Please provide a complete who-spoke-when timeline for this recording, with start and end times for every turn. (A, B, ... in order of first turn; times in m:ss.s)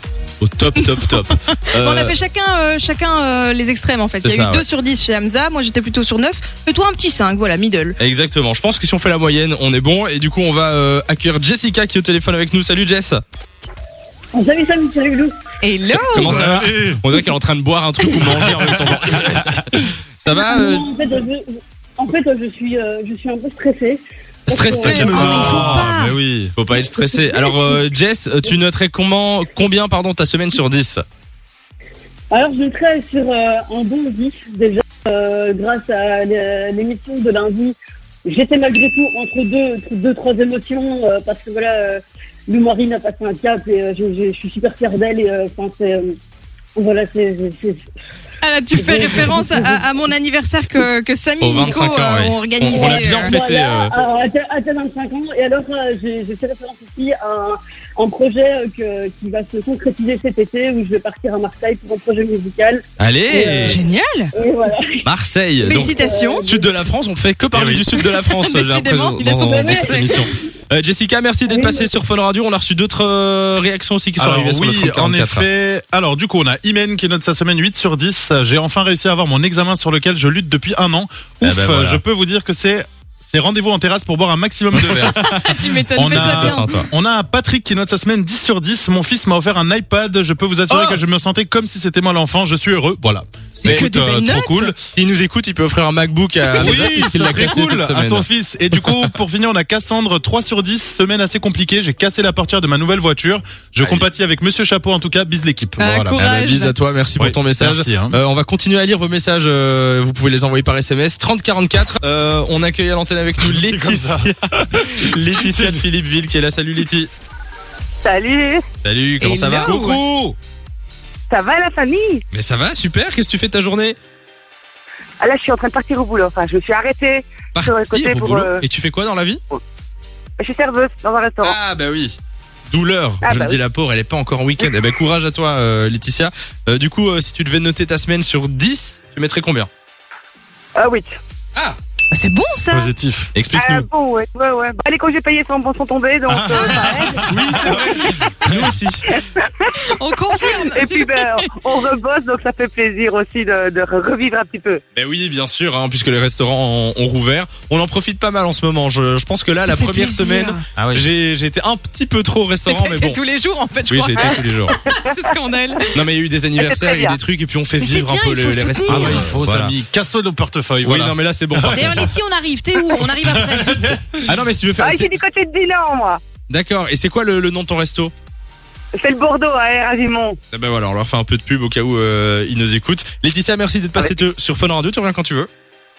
0:00.4-0:02.1 A
0:00.8-0:08.0 B
0:04.2-0:04.6 A
0:08.0-0:13.2 A
0:14.3-0:15.3 C
0:15.6-0:16.3 B
0:16.1-0:20.8 A
0:16.2-0:17.0 D
0:18.2-0:19.6 D
0:20.3-0:25.8 C
0:24.5-0:25.8 A
0:24.8-0:26.5 D
0:25.0-0:26.1 B
0:26.5-0:31.0 A
0:27.0-0:27.5 C
0:32.3-0:46.2 C
0:46.8-0:47.8 C
0:48.4-0:53.3 B
0:48.7-0:49.9 C
0:51.4-0:53.9 A
0:52.6-1:05.1 C
1:03.0-1:03.8 A
1:03.6-1:04.3 B
1:05.0-1:15.4 A
1:05.6-1:06.5 B
1:05.6-1:06.7 C
1:07.5-1:07.8 D
1:08.0-1:10.3 B
1:09.4-1:10.4 C
1:11.5-1:11.9 C
1:14.2-1:34.7 D
1:21.4-1:22.0 A
1:24.7-1:25.1 A
1:25.0-1:26.7 B
1:26.1-1:26.9 A
1:30.7-1:31.0 A
1:33.6-1:33.9 A
1:33.6-1:34.7 B
1:34.9-1:39.1 A
1:36.5-1:46.2 D
1:43.8-1:44.1 A
1:45.8-1:46.7 B
1:46.1-1:57.1 A
1:47.2-1:48.2 D
1:53.4-1:55.8 D
1:58.0-1:58.6 E
1:58.8-1:59.8 A
1:59.2-2:00.0 B
1:59.6-2:00.4 D
2:01.3-2:02.2 E
2:02.3-2:04.0 A
2:05.2-2:08.6 E
2:07.5-2:09.4 A
2:10.4-2:11.6 E
2:11.4-2:12.2 A
2:12.7-2:19.7 A
2:13.2-2:13.6 E
2:20.8-2:21.1 E
2:22.1-2:22.9 B
2:22.7-2:23.3 D
2:23.3-2:23.9 A
2:23.5-2:27.7 E
2:26.3-2:28.7 D
2:26.5-2:26.9 B
2:27.3-2:29.1 A
2:29.1-2:34.8 E
2:29.8-2:31.5 B
2:34.9-2:43.2 A
2:39.7-2:40.6 B
2:40.8-2:41.1 D
2:42.6-2:45.9 B
2:43.9-2:44.8 A
2:44.2-2:45.8 E
2:45.9-2:49.7 A
2:46.6-2:47.2 E
2:47.8-2:49.3 B
2:48.8-2:52.1 D
2:50.8-2:52.1 A
2:51.7-2:54.0 B
2:53.0-2:54.2 D
2:54.2-2:55.2 A
2:54.8-2:56.2 E
2:56.5-2:58.1 A
2:59.0-3:00.4 E
3:00.5-3:05.5 A